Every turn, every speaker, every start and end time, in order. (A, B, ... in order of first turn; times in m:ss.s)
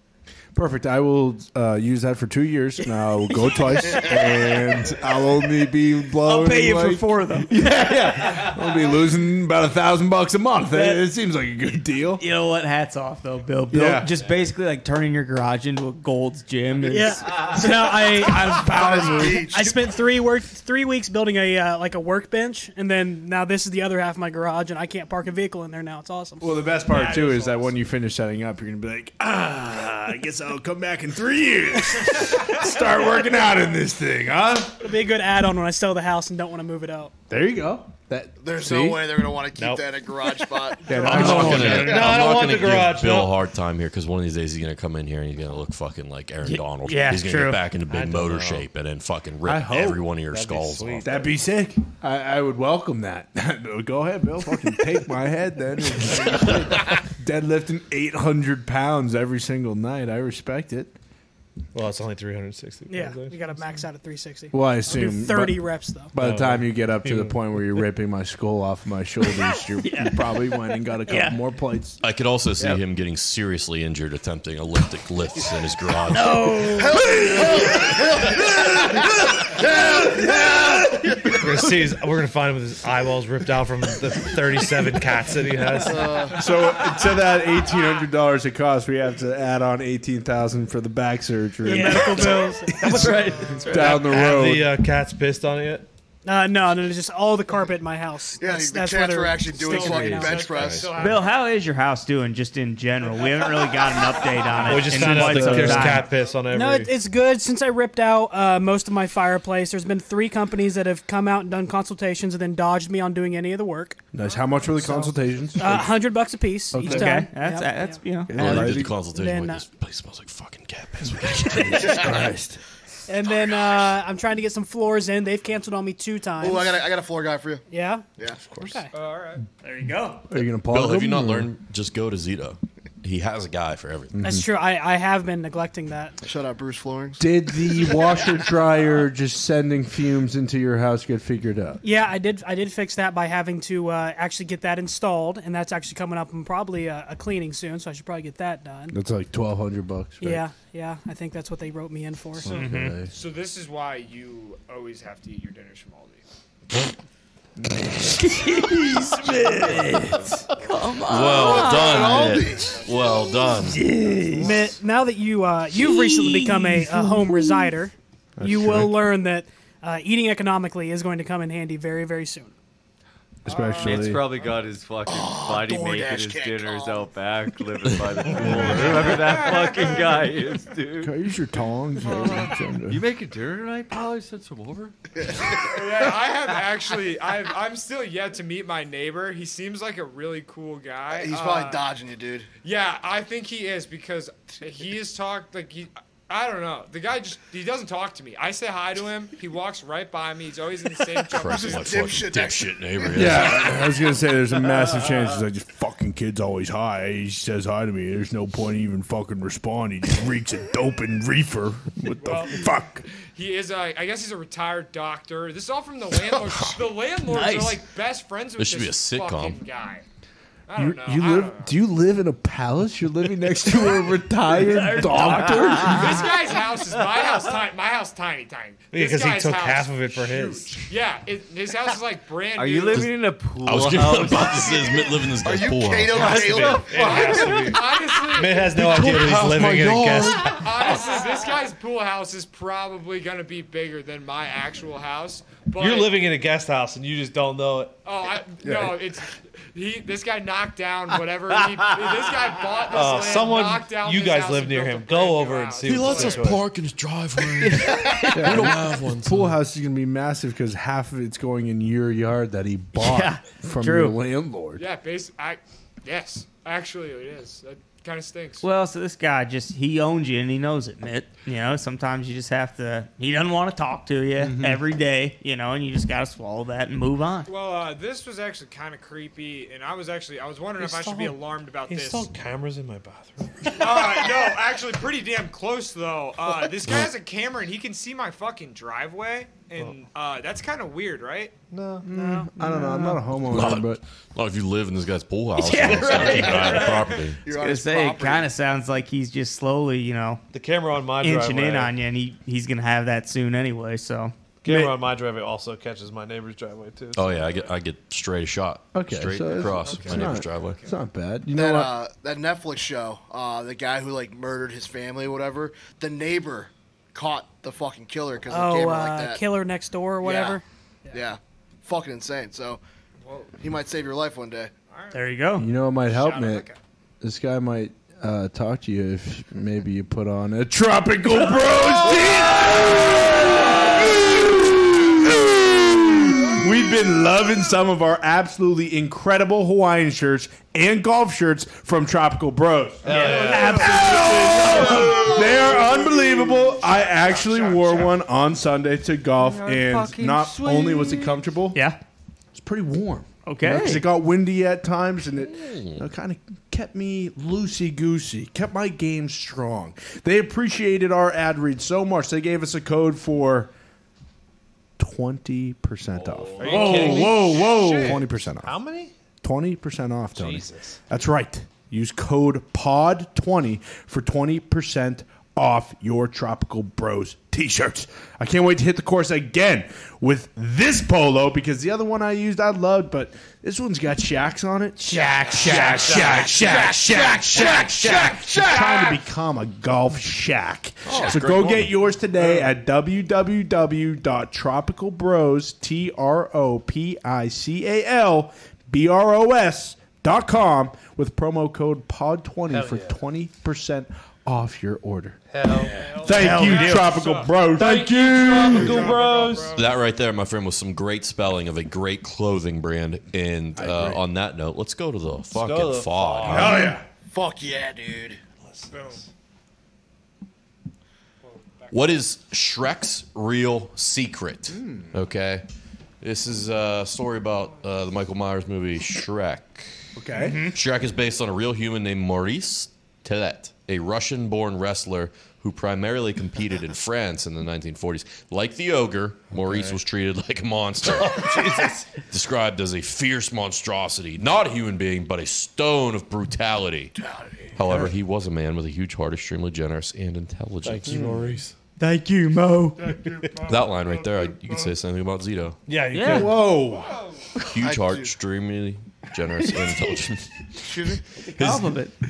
0:00.6-0:12.2 A
0:06.2-0:07.6 B
0:10.7-0:11.0 B
0:12.2-0:17.3 B
0:13.7-0:14.1 A
0:16.8-0:26.5 C
0:18.2-0:19.4 A
0:18.5-0:19.9 D
0:26.4-0:34.8 A
0:26.9-0:27.7 E
0:34.8-0:37.1 C
0:37.3-0:39.1 A
0:38.4-0:42.1 D
0:39.6-0:39.8 F
0:40.9-0:41.9 A
0:41.0-0:42.0 B
0:41.0-0:51.1 G
0:41.6-0:43.4 F
0:46.4-0:47.6 B
0:47.9-0:48.7 F
0:49.4-0:50.1 A
0:50.3-0:51.4 F
0:51.0-1:01.0 A
1:01.7-1:03.4 F
1:02.9-1:06.2 C
1:04.5-1:12.0 A
1:06.2-1:07.4 F
1:09.8-1:10.6 B
1:11.1-1:11.4 B
1:12.0-1:16.7 G
1:16.1-1:17.0 B
1:16.7-1:21.4 D
1:21.4-1:26.2 F
1:25.8-1:26.4 D
1:26.3-1:33.0 A
1:31.6-1:33.7 C
1:33.1-1:33.4 B
1:33.1-1:33.9 E
1:33.6-1:35.9 F
1:33.7-1:34.8 A
1:36.2-1:40.5 C
1:38.4-1:40.9 D
1:39.7-1:41.3 E
1:40.6-1:40.9 F
1:41.0-1:46.1 B
1:44.5-1:44.8 E
1:44.6-1:46.9 F
1:44.9-1:46.1 A
1:46.5-1:54.1 C
1:54.1-1:56.0 A
1:54.8-1:58.0 C
1:56.7-1:57.2 A
1:56.8-1:58.4 B
1:58.3-1:59.0 A
1:58.3-2:02.2 G
1:58.6-1:59.7 C
2:01.7-2:02.6 A
2:03.1-2:06.9 C
2:06.4-2:07.6 D
2:07.7-2:08.1 C
2:08.2-2:08.6 D
2:08.6-2:08.9 C
2:08.9-2:09.4 E
2:09.6-2:10.2 B
2:10.3-2:11.5 A
2:10.7-2:14.2 G
2:14.2-2:14.5 A
2:14.2-2:16.2 C
2:16.2-2:17.3 D
2:17.2-2:21.8 A
2:21.8-2:29.0 C
2:28.9-2:30.4 A
2:30.2-2:32.6 C
2:32.4-2:33.1 A
2:32.5-2:36.2 E
2:32.5-2:33.0 B
2:37.6-2:38.2 A
2:38.1-2:42.2 B
2:41.1-2:43.8 G
2:41.2-2:42.8 D
2:42.7-2:43.3 E
2:43.6-2:44.5 B
2:44.4-2:52.5 C
2:45.7-2:47.8 B
2:48.4-2:49.0 A
2:53.4-2:54.3 A
2:53.5-2:54.5 E
2:53.8-3:01.1 H
2:55.1-2:57.1 D
2:58.4-2:58.8 A
2:58.4-3:00.3 E
3:01.0-3:03.0 A
3:02.0-3:02.5 E
3:02.3-3:05.0 H
3:05.2-3:05.8 D
3:05.5-3:11.8 E
3:11.1-3:12.5 D
3:12.6-3:22.0 E
3:21.3-3:23.7 G
3:21.5-3:23.6 D
3:23.1-3:33.0 A
3:32.2-3:40.0 E
3:37.3-3:37.8 B
3:38.6-3:39.6 G
3:40.7-3:41.8 E
3:40.8-3:46.3 A
3:44.6-3:46.2 B
3:45.8-3:53.1 E
3:48.9-3:50.9 F
3:52.6-3:55.1 H
3:53.6-3:56.5 G
3:55.4-3:57.6 D
3:56.1-3:57.3 H
3:56.2-4:00.5 F
3:56.9-3:58.8 E
3:58.5-4:00.9 G
4:00.4-4:06.2 E
4:05.8-4:08.1 F
4:08.0-4:16.5 E
4:08.7-4:08.9 D
4:12.9-4:16.6 F
4:15.8-4:19.6 G
4:17.6-4:24.8 A
4:17.7-4:18.7 B
4:23.0-4:24.2 B
4:24.8-4:28.6 E
4:28.6-4:37.5 B
4:34.4-4:34.8 A
4:37.5-4:42.3 E
4:40.8-4:44.3 F
4:43.8-4:51.6 E
4:46.8-4:47.1 G
4:51.7-4:52.1 F
4:52.1-4:54.0 A
4:52.2-4:53.2 B
4:53.5-4:57.4 G
4:55.6-5:00.4 B
4:55.9-4:58.5 D
4:56.1-4:57.2 E
5:00.5-5:01.9 F
5:01.2-5:04.3 B
5:04.6-5:07.5 F
5:04.7-5:04.9 A
5:07.2-5:10.8 G
5:09.0-5:11.9 A
5:09.6-5:10.9 E
5:11.6-5:19.4 D
5:18.5-5:21.2 C
5:20.2-5:20.5 E
5:21.1-5:22.8 D
5:23.2-5:23.6 E
5:23.6-5:24.7 D
5:24.9-5:25.3 E
5:25.1-5:25.7 B
5:25.6-5:26.7 A
5:26.0-5:26.8 E
5:27.2-5:51.8 A
5:32.0-5:32.9 E
5:43.0-5:43.9 F
5:43.1-5:45.5 B
5:45.0-5:45.3 D
5:46.2-5:48.1 E
5:49.5-5:51.3 H
5:51.7-5:52.0 B
5:52.5-6:03.7 A
5:53.5-5:54.1 B
5:55.5-5:56.0 G
6:05.0-6:08.8 A
6:06.1-6:06.9 H
6:06.6-6:09.1 F
6:06.6-6:08.2 E
6:09.4-6:45.4 A
6:10.4-6:11.0 F
6:25.1-6:26.5 B
6:25.2-6:26.9 E
6:26.2-6:28.8 D
6:28.4-6:29.1 E
6:31.0-6:31.9 G
6:32.4-6:32.7 F
6:42.7-6:43.1 F
6:45.5-6:46.2 F
6:45.8-6:49.9 E
6:46.0-6:49.2 A
6:46.3-6:47.2 B
6:47.8-6:49.8 F
6:49.7-6:56.8 G
6:53.8-6:54.2 A
6:55.5-6:56.8 F
6:56.5-6:57.0 A
6:56.7-6:57.0 E
6:56.8-6:58.4 D
6:58.7-6:59.2 F
6:58.9-6:59.2 E
7:01.4-7:02.0 E
7:01.9-7:05.6 G
7:04.7-7:05.1 A
7:06.2-7:09.9 G
7:10.2-7:10.6 A
7:10.3-7:10.8 B
7:10.7-7:21.6 G
7:19.6-7:20.0 F
7:21.0-7:22.1 F
7:22.3-7:27.2 G
7:27.2-7:27.7 D
7:27.8-7:31.6 G
7:30.8-7:31.7 F
7:31.0-7:31.6 A
7:32.0-7:33.2 B
7:33.1-7:34.8 E
7:33.6-7:35.8 G
7:35.9-7:36.8 F
7:36.1-7:36.5 B
7:36.3-7:37.2 A
7:36.9-7:37.4 E
7:37.7-7:42.0 G
7:37.8-7:38.4 D
7:40.9-7:41.2 D
7:41.5-7:42.1 B